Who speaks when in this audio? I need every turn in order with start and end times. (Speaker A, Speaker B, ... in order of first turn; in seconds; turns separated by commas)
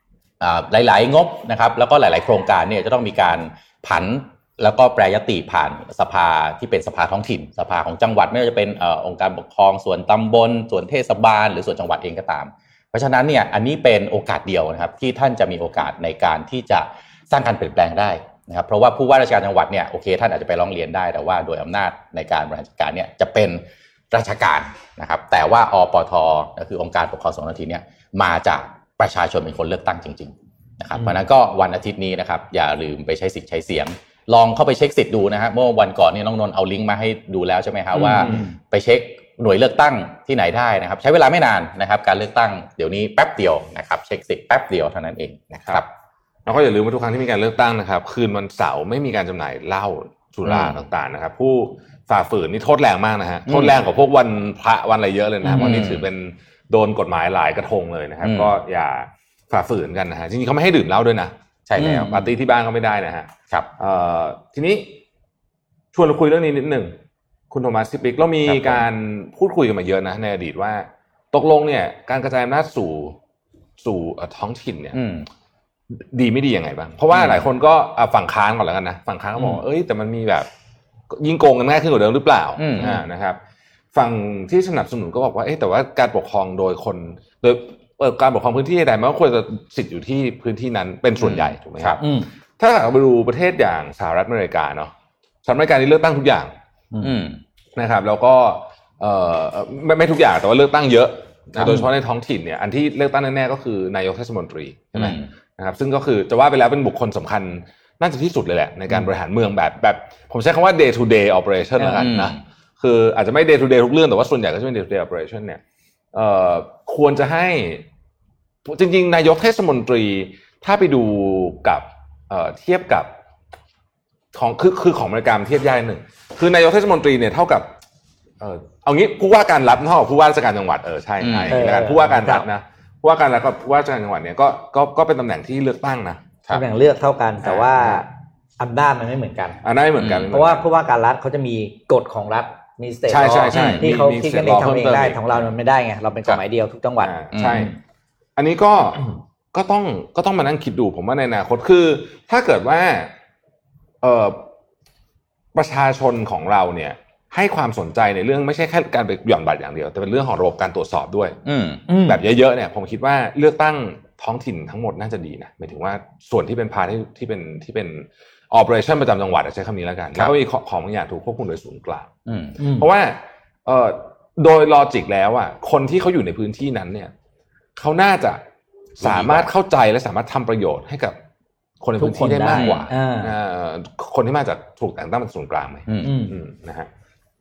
Speaker A: 0.4-45.9, Speaker B: 31.0-31.2, Speaker B: 37.9-38.5, Speaker C: 38.2-38.5, Speaker C: 46.5-65.0, Speaker A: 50.5-50.8, Speaker A: 53.5-53.8, Speaker A: 55.5-56.1, Speaker A: 58.2-58.5, Speaker A: 61.7-62.4, Speaker C: 65.9-66.9, Speaker C: 67.5-73.2, Speaker A: 68.5-68.8, Speaker C: 73.8-75.0, Speaker A: 74.9-75.3, Speaker C: 76.0-80.5, Speaker A: 77.1-77.5, Speaker C: 81.1-83.4, Speaker A: 82.6-82.9, Speaker C: 83.9-92.0, Speaker A: 91.2-92.0, Speaker B: 92.0-92.3, Speaker C: 92.6-94.9, Speaker C: 95.4-96.5, Speaker A: 97.0-97.4, Speaker C: 97.8-115.6, Speaker A: 105.0-105.3, Speaker B: 111.8-112.0, Speaker A: 112.0-112.4, Speaker C: 116.1-117.8, Speaker C: 118.7-123.1, Speaker C: 124.3-127.7, Speaker C: 128.4-136.2, Speaker A: 131.2-131.7, Speaker B: 131.5-132.5, Speaker B: 136.5-139.6, Speaker C: 137.4-138.0, Speaker C: 139.6-140.6, Speaker A: 140.0-140.3, Speaker B: 140.3-147.7, Speaker C: 143.1-145.5, Speaker A: 143.5-143.8, Speaker C: 147.0-147.7, Speaker A: 147.3-147.7, Speaker C: 148.4-153.1, Speaker C: 154.0-154.4, Speaker C: 155.5-161.4, Speaker A: 161.4-161.8, Speaker B: 161.9-162.2, Speaker C: 162.0-172.1, Speaker A: 172.3-172.6, Speaker B: 172.6-172.9, Speaker C: 172.7-177.1, Speaker C: 177.8-178.4, Speaker C: 179.0-181.2, Speaker A: 179.0-179.5, Speaker C: 181.8-186.9, Speaker B: 182.0-183.3, Speaker A: 182.5-182.9, Speaker A: 185.9-186.2, Speaker B: 186.0-186.4